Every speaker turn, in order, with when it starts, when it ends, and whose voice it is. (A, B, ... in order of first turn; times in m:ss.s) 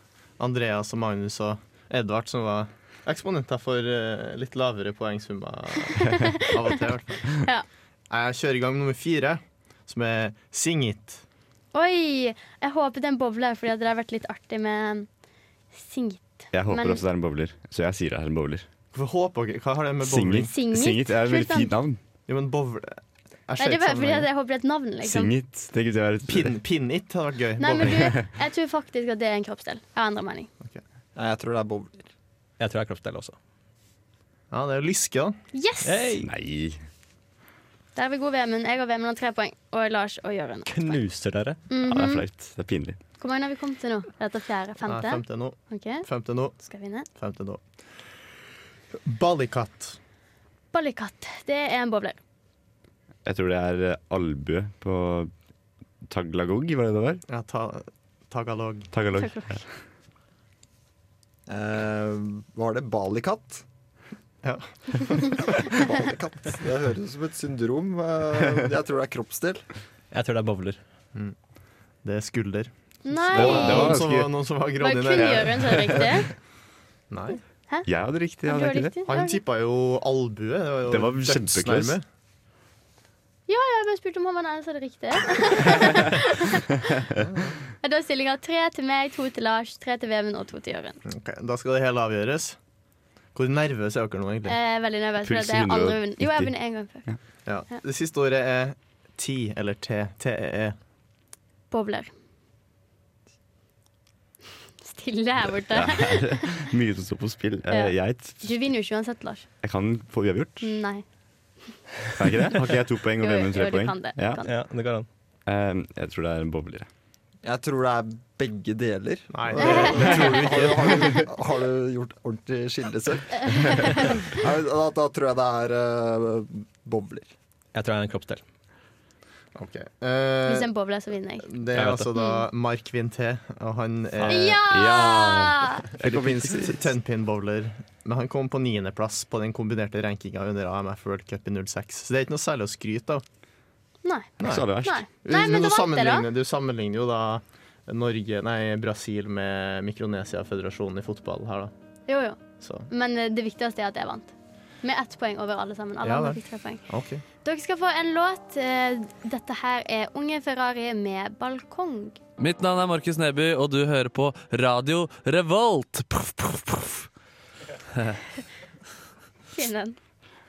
0:00.4-0:07.4 A
0:06.0-0:06.4 B
0:08.1-0:11.2 A
0:11.7-0:15.1 B
0:15.7-0:17.0 B
0:16.5-0:18.6 C
0:18.9-0:20.5 A
0:20.0-0:22.0 C
0:20.5-0:21.7 B
0:22.3-0:24.3 A
0:23.6-0:25.3 B
0:25.0-0:26.6 C
0:26.3-0:28.2 A
0:27.6-0:30.5 B
0:31.2-0:32.1 D
0:32.6-0:33.4 E
0:34.5-0:35.4 A
0:35.5-0:36.2 B
0:35.8-0:36.3 E
0:36.2-0:36.8 C
0:38.0-0:41.0 B
0:40.6-0:41.6 E
0:41.7-0:42.2 B
0:41.8-0:43.0 C
0:43.2-0:46.0 B
0:44.9-0:46.6 A
0:46.6-0:47.1 B
0:47.2-0:47.6 A
0:48.9-0:50.0 A
0:50.7-0:52.2 B
0:53.2-0:55.3 C
0:56.1-0:57.2 C
0:57.3-0:58.9 A
0:58.9-0:59.6 C
0:59.2-0:59.6 B
1:01.5-1:03.6 D
1:04.4-1:05.6 A
1:05.5-1:09.6 D
1:10.1-1:10.8 E
1:12.0-1:16.3 A
1:13.0-1:14.0 B
1:13.3-1:14.4 C
1:14.8-1:16.3 B
1:15.2-1:16.0 C
1:17.1-1:17.4 A
1:17.9-1:18.9 C
1:18.5-1:19.4 B
1:19.1-1:22.0 A
1:20.9-1:22.0 C
1:23.5-1:26.6 B
1:27.2-1:27.6 A
1:27.8-1:31.0 B
1:31.1-1:32.6 A
1:33.4-1:34.6 A
1:34.5-1:37.0 B
1:35.2-1:36.5 C
1:37.5-1:40.8 A
1:41.7-1:42.1 B
1:44.8-1:46.5 B
1:45.6-1:48.4 C
1:47.7-1:49.5 B
1:49.6-1:50.7 C
1:50.6-1:51.0 B
1:52.2-1:54.4 C
1:53.2-1:54.5 B
1:54.4-1:55.1 E
1:55.5-1:56.9 C
1:57.4-2:07.3 D
1:59.3-2:01.2 A
1:59.6-2:00.4 B
2:03.5-2:04.2 B
2:07.7-2:08.4 E
2:09.6-2:10.7 A
2:10.5-2:11.5 B
2:11.4-2:14.6 A
2:11.7-2:12.1 E
2:12.1-2:12.4 B
2:14.2-2:14.5 E
2:14.3-2:15.8 B
2:14.7-2:16.8 C
2:16.0-2:23.2 A
2:24.0-2:26.3 B
2:24.4-2:31.7 A
2:24.4-2:25.0 C
2:32.1-2:36.8 B
2:32.6-2:32.9 A
2:36.0-2:37.2 A
2:37.4-2:42.2 B
2:42.4-2:47.0 F
2:49.6-2:50.0 B